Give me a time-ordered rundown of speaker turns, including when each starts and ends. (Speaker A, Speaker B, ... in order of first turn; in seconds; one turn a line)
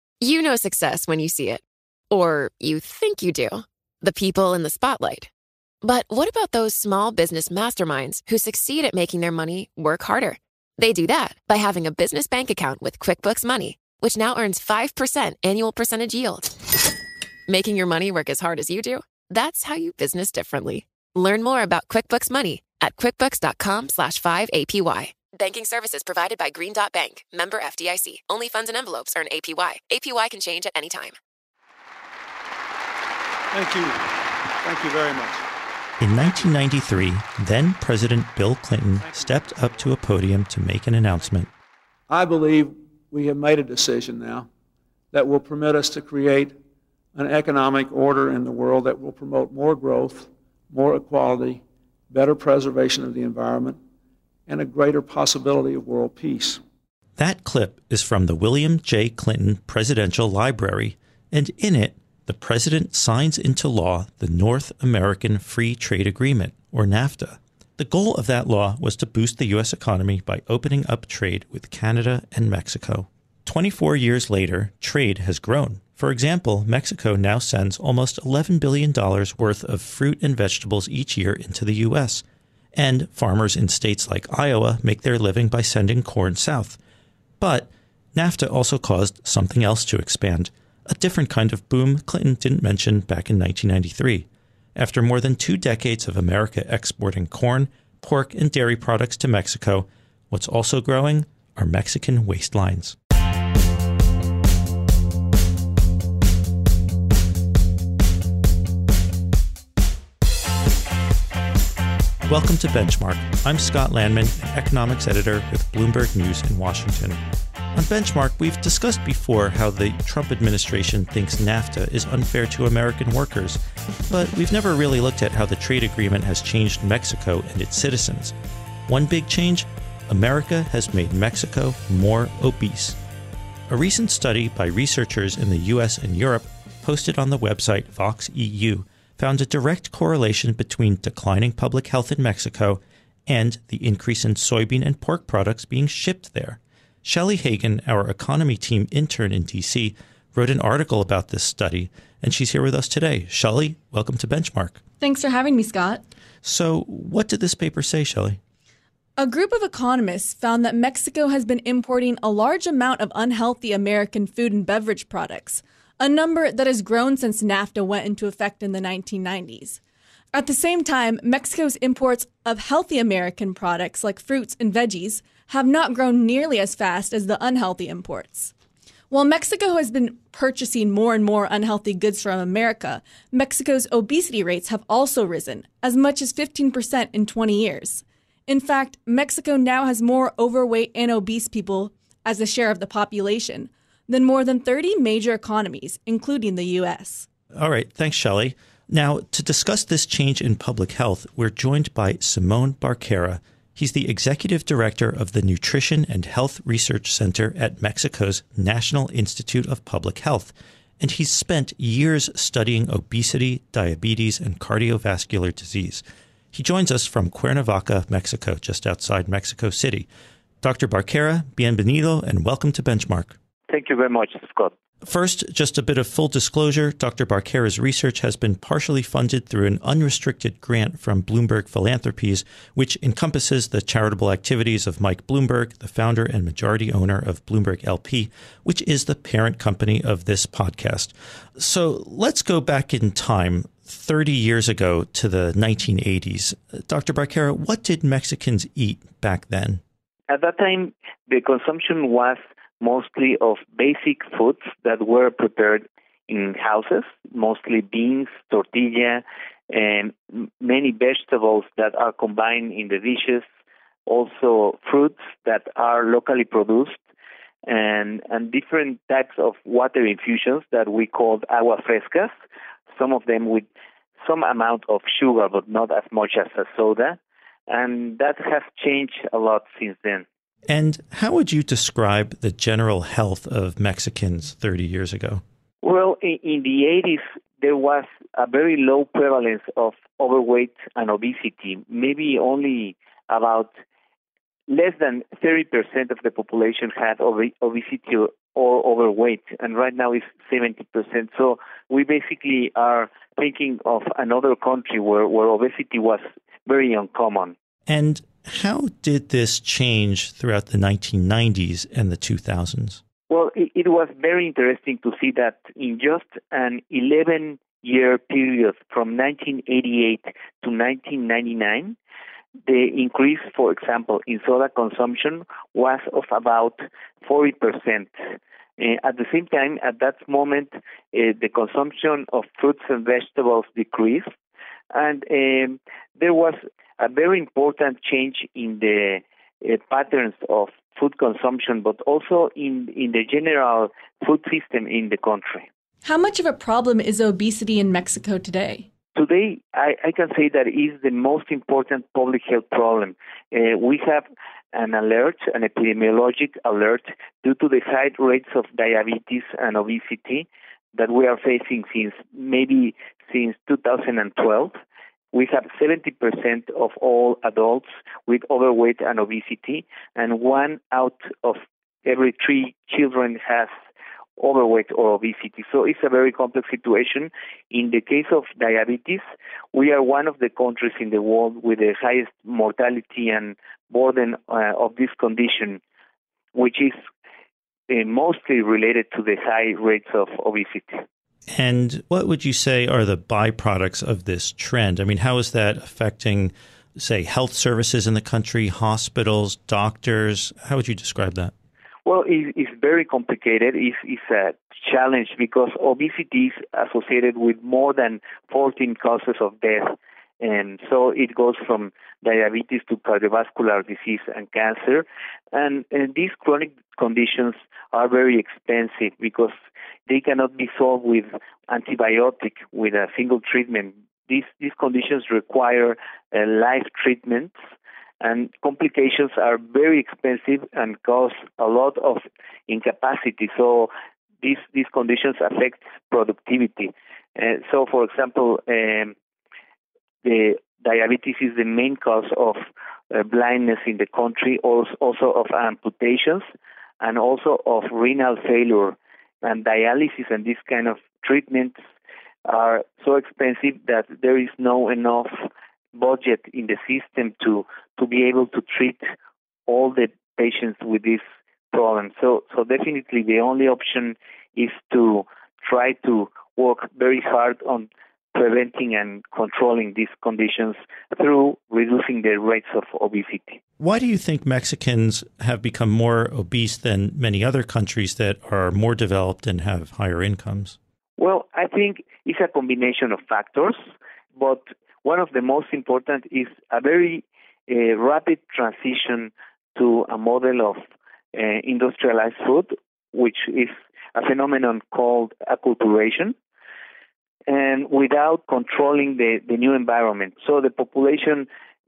Speaker A: 0.2-5.3
Speaker A: 5.8-16.5
Speaker A: 17.5-31.1
Speaker B: 33.5-35.5
Speaker C: 36.0-41.5
Speaker B: 42.1-44.5
Speaker B: 45.1-46.6
Speaker B: 47.1-53.8
Speaker B: 54.5-56.6
Speaker C: 57.2-82.2
Speaker C: 82.8-86.8
Speaker C: 87.4-103.0
Speaker C: 112.3-117.2
Speaker C: 117.7-128.3
Speaker C: 128.9-133.0
Speaker C: 133.7-154.8
Speaker D: 155.0-156.0
Speaker C: 156.4-158.4
Speaker D: 159.2-169.8
Speaker D: 170.3-178.5
Speaker D: 179.1-197.2
Speaker C: 197.6-220.1
Speaker C: 220.6-223.3
Speaker E: 223.7-224.7
Speaker C: 225.0-249.8
Speaker E: 250.3-263.4
Speaker E: 264.1-267.0
Speaker E: 267.7-272.3
Speaker E: 272.9-273.7
Speaker E: 274.2-280.2
Speaker C: 280.7-285.4
Speaker E: 285.8-293.7
Speaker E: 294.7-307.5
Speaker C: 307.9-313.0
Speaker E: 313.3-322.0
Speaker E: 322.7-328.1
Speaker E: 328.8-334.3
Speaker E: 334.9-345.6
Speaker D: 346.0-348.9
Speaker E: 349.1-364.8
Speaker E: 365.3-373.7
Speaker E: 374.4-379.2
Speaker E: 379.7-385.8
Speaker E: 386.5-387.0
Speaker E: 387.9-391.0
Speaker C: 391.5-401.5
Speaker E: 402.0-419.5
Speaker E: 420.1-427.5
Speaker E: 428.2-433.9
Speaker E: 434.4-439.1
Speaker E: 440.2-442.6
Speaker E: 443.1-446.4
Speaker E: 447.0-451.8
Speaker E: 452.4-459.1
Speaker E: 459.7-461.2
Speaker E: 461.7-473.6
Speaker C: 473.8-480.8
Speaker E: 481.2-483.8
Speaker E: 484.4-490.8
Speaker E: 491.3-496.3
Speaker E: 497.5-501.5